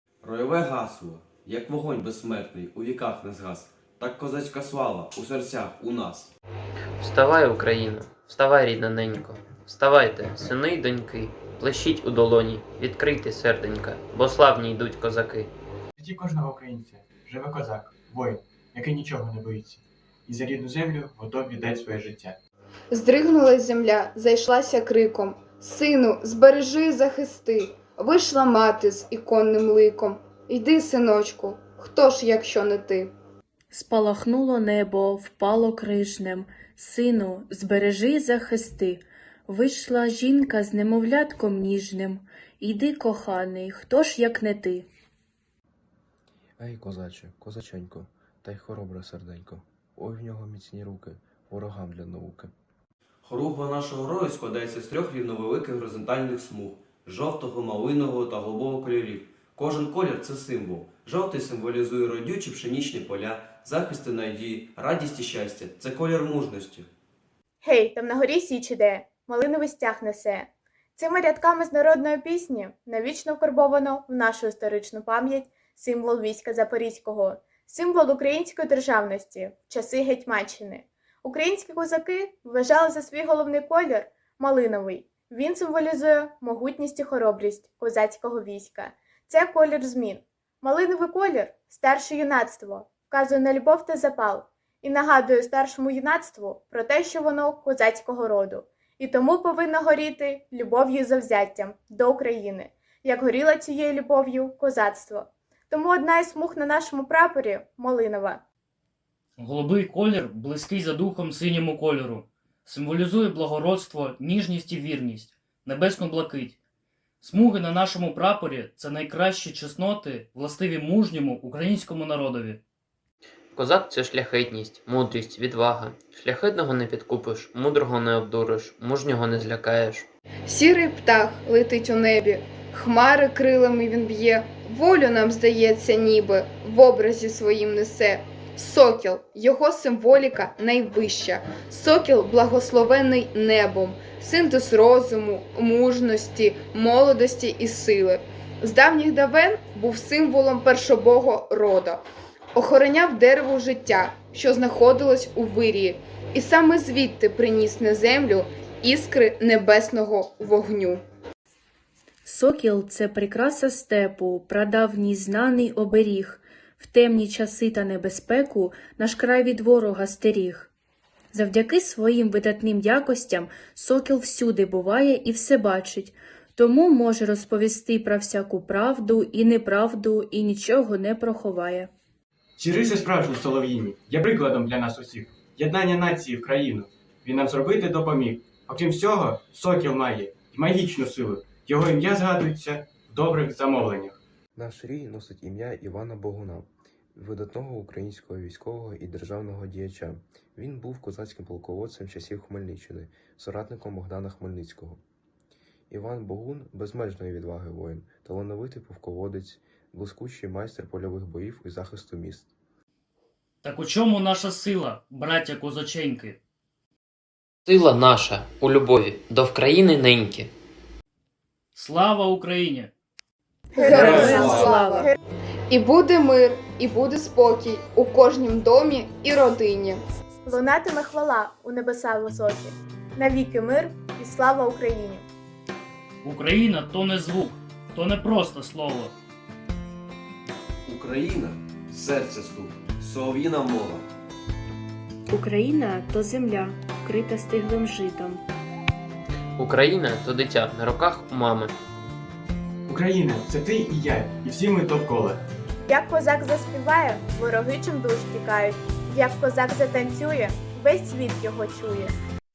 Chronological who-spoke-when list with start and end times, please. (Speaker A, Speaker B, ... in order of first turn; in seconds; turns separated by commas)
Speaker A: 0.2-6.3, Speaker B: 7.0-15.5, Speaker C: 16.0-22.4, Speaker D: 22.9-33.1, Speaker E: 33.7-44.9, Speaker F: 46.6-52.5, Speaker A: 53.2-66.9, Speaker G: 67.6-108.4, Speaker H: 109.4-116.6, Speaker H: 117.2-122.6, Speaker B: 123.5-130.1, Speaker D: 130.4-152.0, Speaker D: 152.5-161.0, Speaker E: 162.2-170.7, Speaker E: 171.3-181.9, Speaker C: 182.6-194.2, Speaker F: 194.6-205.0, Speaker F: 205.9-212.5, Speaker H: 213.6-216.4, Speaker B: 217.7-220.5, Speaker H: 221.7-222.9, Speaker D: 223.7-225.1, Speaker E: 223.7-225.1, Speaker G: 223.8-225.1, Speaker A: 224.0-224.7, Speaker D: 225.7-230.0, Speaker G: 230.4-235.2, Speaker H: 236.2-239.1, Speaker A: 240.8-244.1, Speaker E: 245.3-248.4, Speaker B: 249.6-251.7, Speaker C: 252.9-255.4, Speaker G: 255.8-262.1